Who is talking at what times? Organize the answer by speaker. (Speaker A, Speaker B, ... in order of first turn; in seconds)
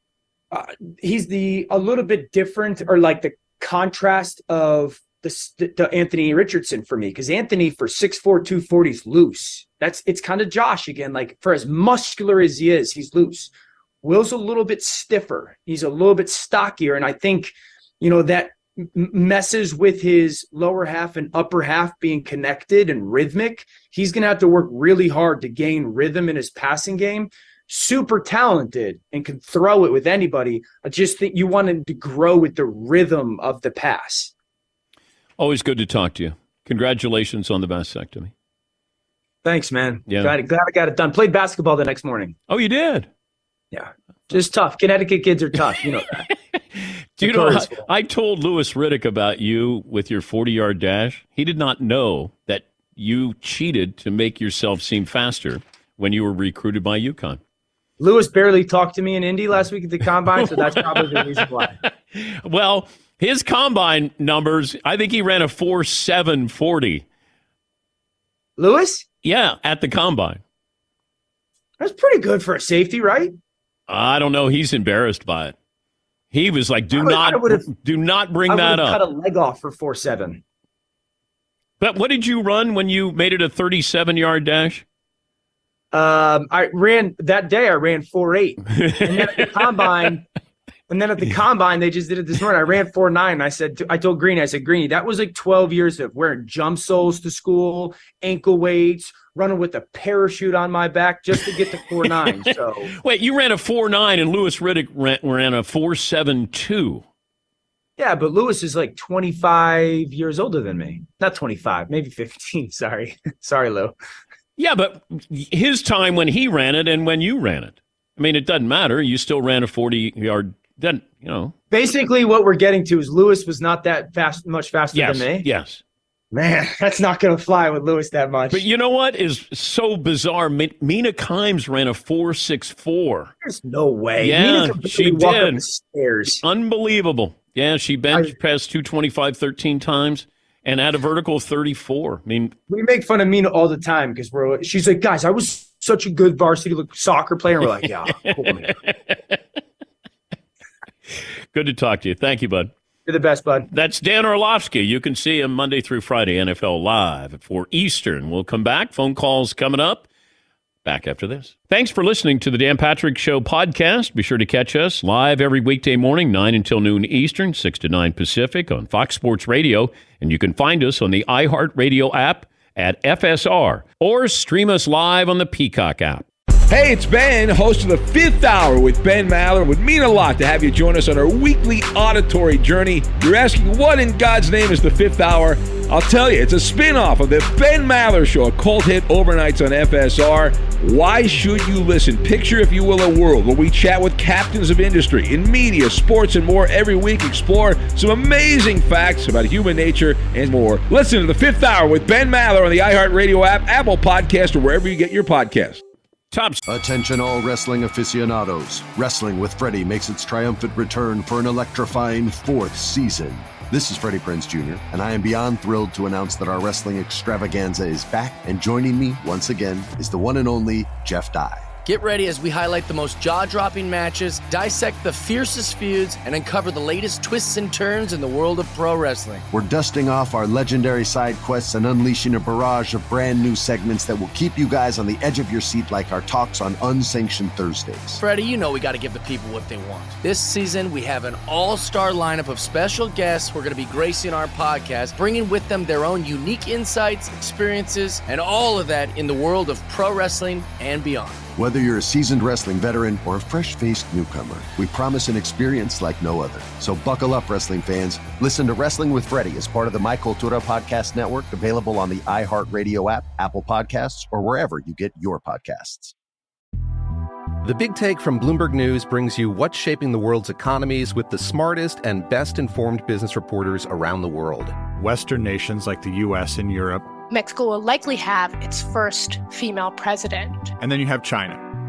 Speaker A: 0.5-13.5, 14.0-34.3, 39.5-42.4, 43.7-46.1, 47.2-47.9, 58.0-61.8, 68.6-69.0, 71.8-73.3, 76.9-77.6, 78.5-80.4, 85.9-90.2, 90.9-102.9, 108.0-113.9, 121.7-125.5, 126.3-128.6, 133.4-136.4, 142.7-148.7, 153.1-153.7
Speaker B: 35.4-38.3, 40.1-40.4, 42.5-43.1, 45.7-46.2, 46.8-57.4, 60.1-67.0, 69.2-70.4, 73.9-75.5, 76.3-79.0, 81.8-84.8, 88.7-90.0, 101.3-107.0, 114.6-121.5, 124.9-125.8, 128.5-133.3, 134.2-135.6, 136.3-142.6, 147.7-149.4, 151.5-152.7, 153.7-160.1, 160.8-176.2, 206.3-206.6
Speaker C: 176.7-205.8
Speaker D: 206.7-221.7, 229.5-238.2, 251.6-266.1
Speaker E: 221.8-229.4, 238.2-251.4
Speaker F: 267.6-274.8
Speaker G: 274.9-277.1, 280.8-281.6
Speaker H: 277.3-280.7